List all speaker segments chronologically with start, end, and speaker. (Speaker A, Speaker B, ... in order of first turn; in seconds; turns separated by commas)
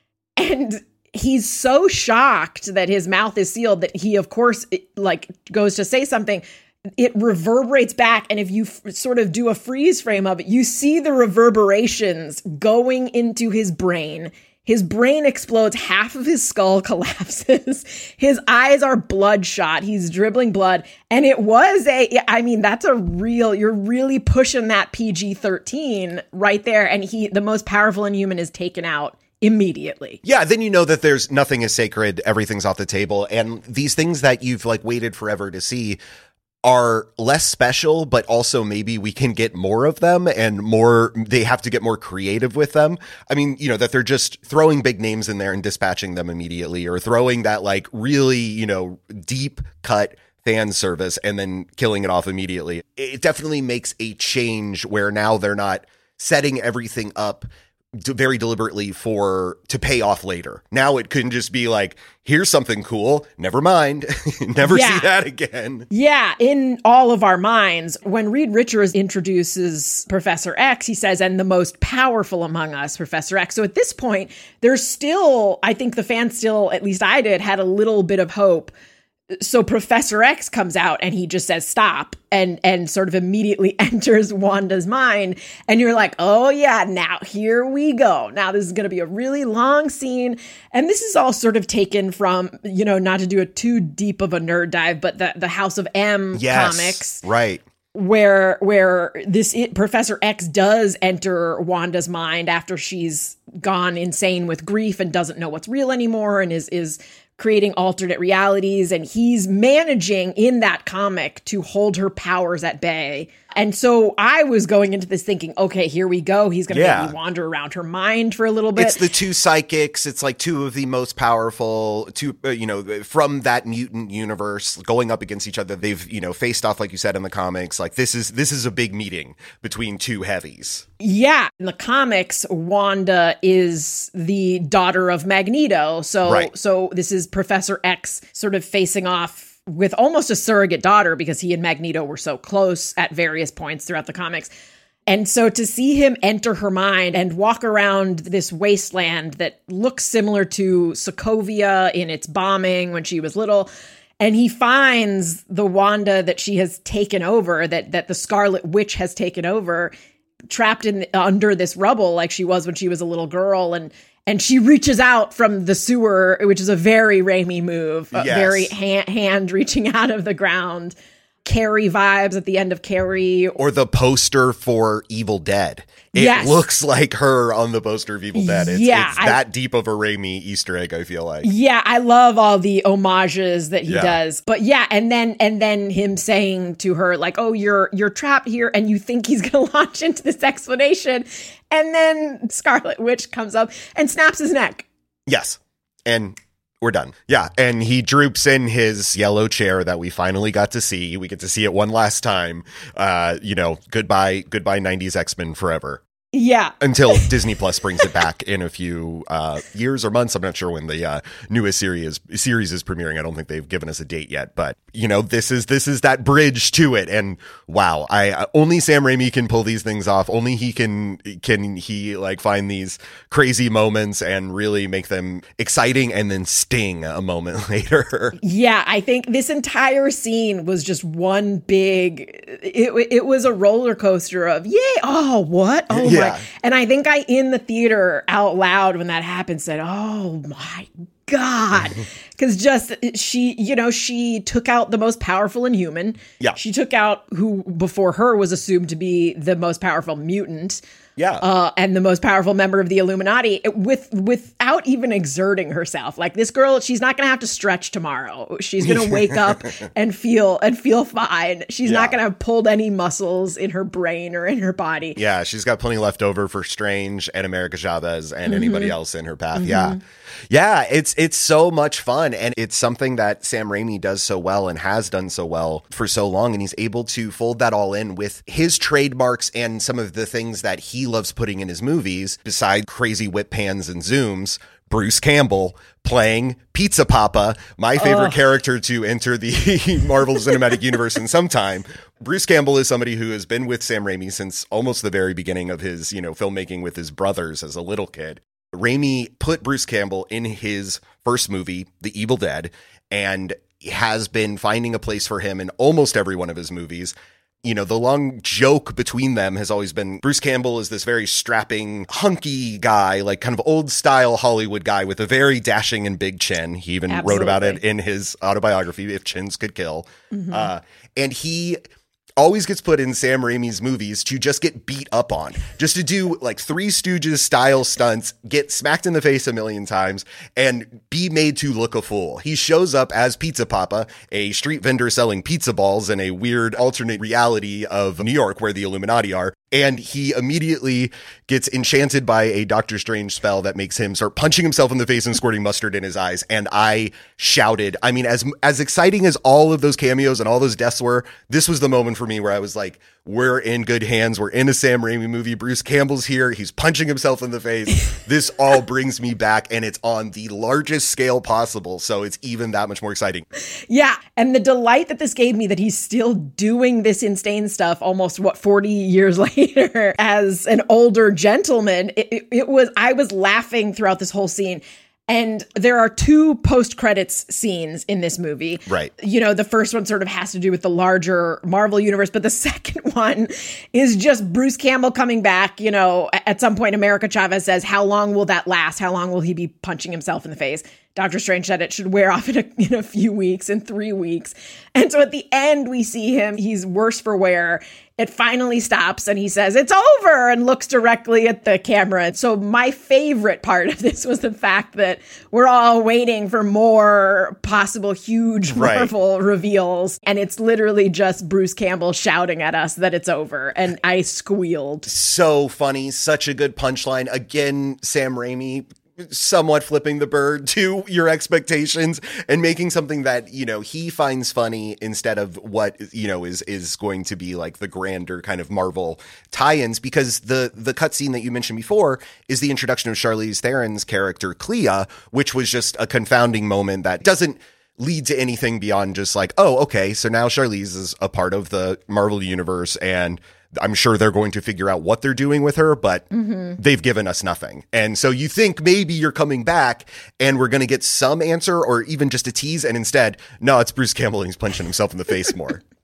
Speaker A: 0.4-6.4, Speaker A: 7.0-30.2, Speaker B: 30.2-36.0, Speaker B: 36.6-65.9, Speaker A: 64.7-65.1, Speaker A: 65.9-78.7, Speaker A: 79.3-97.2, Speaker B: 96.3-97.6, Speaker A: 97.9-119.0, Speaker B: 116.7-117.2, Speaker B: 118.8-130.8, Speaker A: 131.0-144.5, Speaker B: 136.2-136.5, Speaker A: 145.1-153.7, Speaker A: 154.2-159.9, Speaker A: 160.5-173.6, Speaker B: 168.1-168.7, Speaker B: 173.6-181.5, Speaker A: 176.1-176.6, Speaker A: 178.3-179.4, Speaker A: 181.4-194.9, Speaker B: 183.9-184.2, Speaker B: 195.3-206.0, Speaker A: 206.3-207.3, Speaker B: 206.8-228.4, Speaker A: 228.4-250.8, Speaker B: 235.9-236.4, Speaker B: 251.2-251.4, Speaker A: 251.4-265.2, Speaker B: 258.8-259.6, Speaker B: 261.9-262.2, Speaker B: 265.2-321.8, Speaker A: 268.5-268.9, Speaker A: 269.6-270.0, Speaker A: 288.0-288.4, Speaker A: 317.1-317.8, Speaker A: 320.3-320.7, Speaker B: 322.4-363.5, Speaker A: 363.9-415.1, Speaker B: 378.9-379.1, Speaker B: 408.7-409.1, Speaker B: 415.1-455.8, Speaker A: 446.4-446.8